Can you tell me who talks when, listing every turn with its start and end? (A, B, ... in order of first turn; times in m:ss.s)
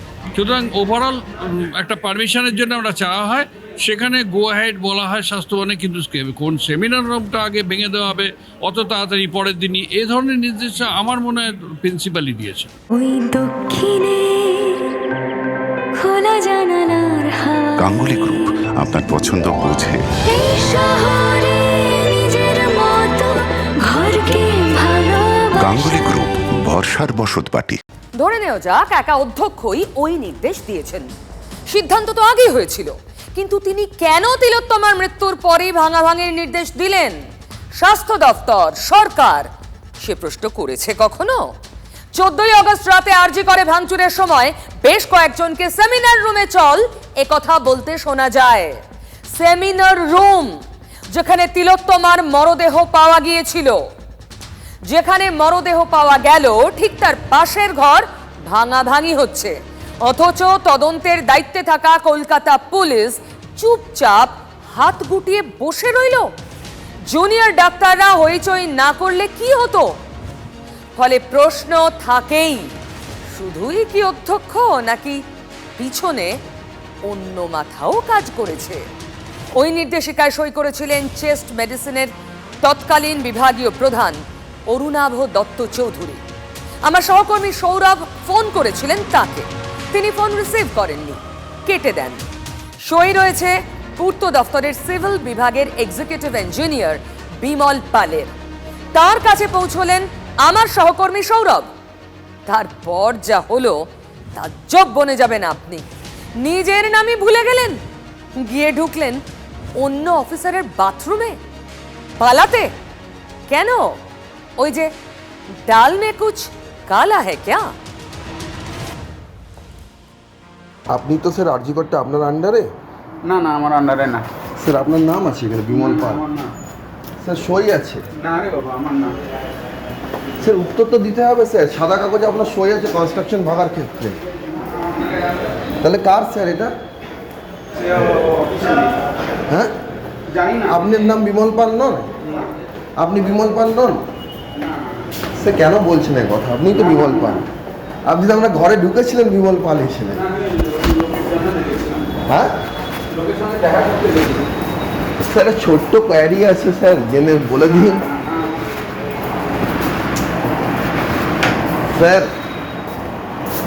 0:00.4-0:12.7 A
0:12.9-0:14.9 B
0:16.0-0:17.9 B
0:17.8-0:20.0 C
0:20.2-0:26.0 B
0:25.6-0:27.8 C
0:28.2-0:31.1 D
0:31.7-0:37.2 D
0:37.8-0:39.5 D
0:40.0-0:41.5 D
0:42.1-0:50.6 D
0:51.1-0:53.8 D
0:54.8-1:06.3 D
1:07.0-1:09.9 D
1:11.0-1:12.7 D
1:13.3-1:15.2 D
1:15.8-1:16.4 D
1:17.1-1:18.8 D
1:19.6-1:22.1 D
1:22.6-1:26.2 D
1:26.9-1:32.2 D
1:32.9-1:38.3 D
1:38.9-1:41.7 D
1:42.5-1:43.8 D
1:44.4-1:45.8 D
1:46.4-1:47.8 D
1:48.4-1:49.2 D
1:49.8-1:51.4 D
1:52.2-1:52.7 D
1:53.5-1:54.0 D
1:54.6-1:54.9 D
1:55.7-1:57.7 D
2:00.9-2:02.7 E
2:03.3-2:04.2 F
2:04.6-2:06.2 E
2:05.7-2:06.4 F
2:07.2-2:08.0 E
2:08.2-2:09.1 F
2:10.4-2:14.2 E
2:15.8-2:16.7 E
2:18.0-2:18.9 F
2:20.7-2:22.1 E
2:23.0-2:24.0 E
2:25.4-2:27.4 E
2:26.8-2:27.3 F
2:28.1-2:30.2 E
2:30.6-2:32.1 F
2:32.3-2:32.6 E
2:33.1-2:34.4 F
2:35.2-2:38.0 E
2:41.9-2:42.4 E